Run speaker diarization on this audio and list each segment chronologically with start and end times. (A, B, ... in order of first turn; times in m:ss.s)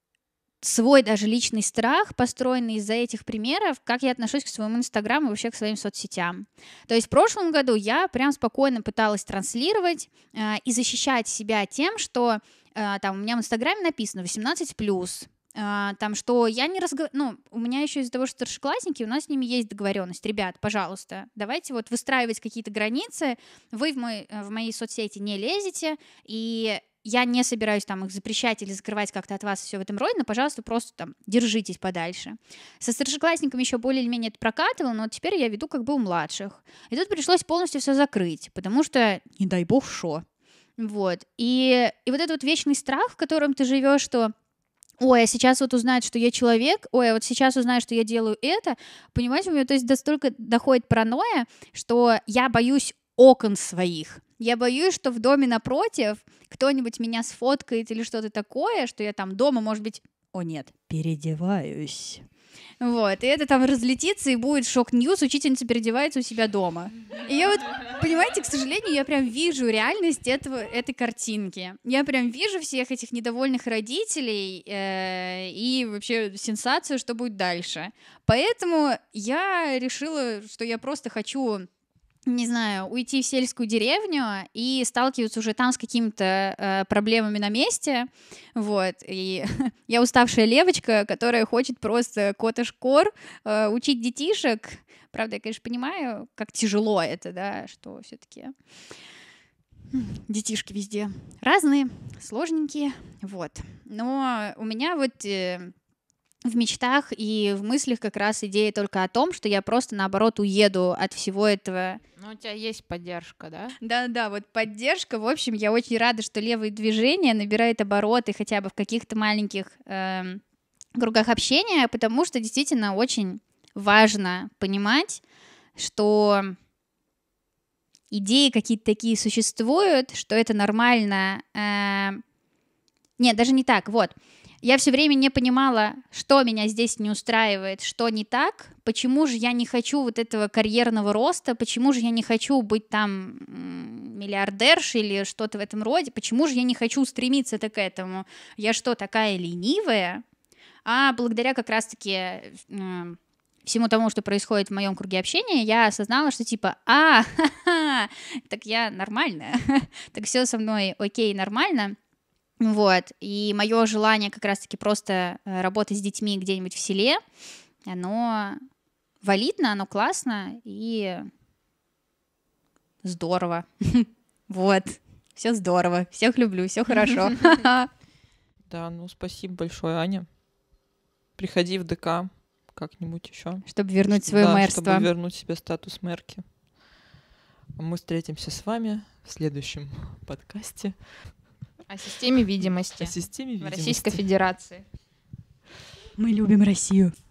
0:00.6-0:40.2 A
0:40.8-0:44.3 A
0:45.0-1:02.2 A
1:02.8-1:21.7 A
1:22.2-1:38.5 A
1:39.9-1:45.7 A
1:46.4-1:52.0 A
1:52.2-1:53.7 B
1:53.8-2:00.4 A
2:01.0-2:05.2 A
2:05.8-2:06.6 A
2:08.1-2:12.2 A
2:13.2-2:30.2 A
2:30.8-2:42.0 A
2:42.6-2:47.2 A
2:47.8-2:48.6 A
2:49.2-2:51.3 A
2:53.0-2:57.9 A
2:58.7-3:00.4 C
3:01.4-3:06.6 C
3:03.6-3:05.1 A
3:07.8-3:11.6 C
3:11.9-3:14.8 B
3:12.6-3:14.3 C
3:16.2-3:17.1 A